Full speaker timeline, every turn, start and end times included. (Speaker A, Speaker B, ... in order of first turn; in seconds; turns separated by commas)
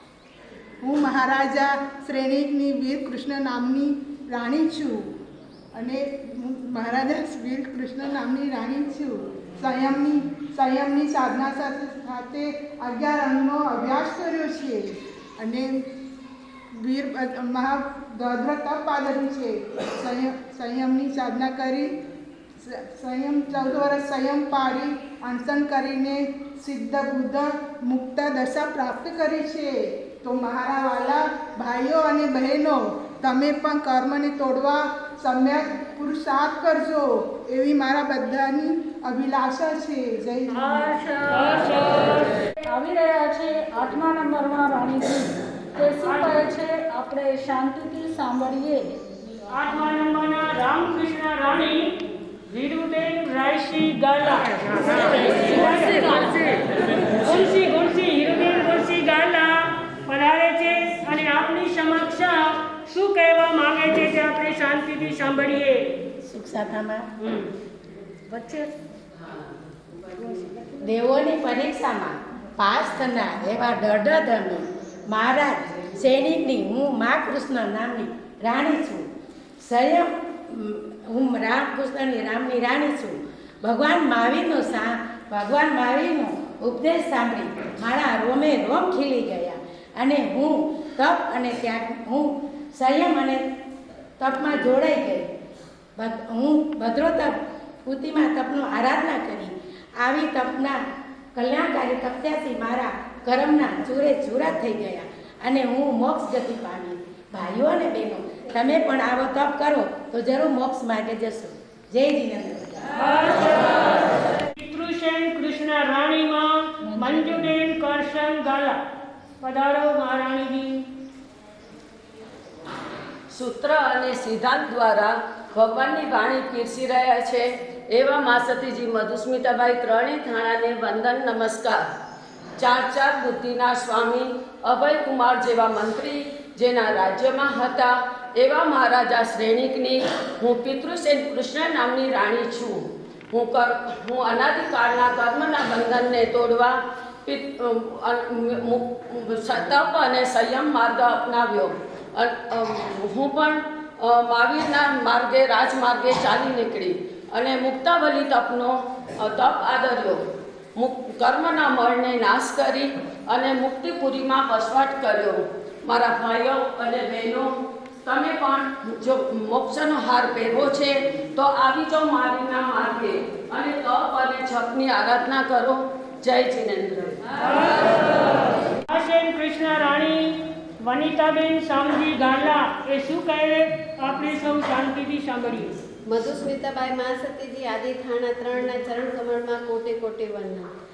Speaker A: 0.8-5.0, Speaker A: 5.7-15.9, Speaker A: 16.8-21.9, Speaker A: 22.6-40.8, Speaker B: 40.6-41.8, Speaker C: 41.3-42.3, Speaker B: 42.7-49.0, Speaker C: 46.0-46.5, Speaker C: 49.5-51.9, Speaker C: 52.5-65.9, Speaker B: 54.7-56.6, Speaker D: 66.2-67.0, Speaker C: 67.2-67.5, Speaker B: 68.3-68.7, Speaker B: 70.3-70.7, Speaker D: 70.8-79.0, Speaker D: 79.6-93.4, Speaker D: 94.2-95.3, Speaker D: 96.0-97.3, Speaker D: 97.8-100.8, Speaker D: 101.3-113.0, Speaker C: 113.0-118.8, Speaker B: 116.8-117.5, Speaker C: 119.4-120.8, Speaker E: 123.3-131.8, Speaker E: 132.6-160.2, Speaker E: 160.8-167.5, Speaker E: 168.0-177.2, Speaker C: 177.4-185.7, Speaker F: 186.1-190.7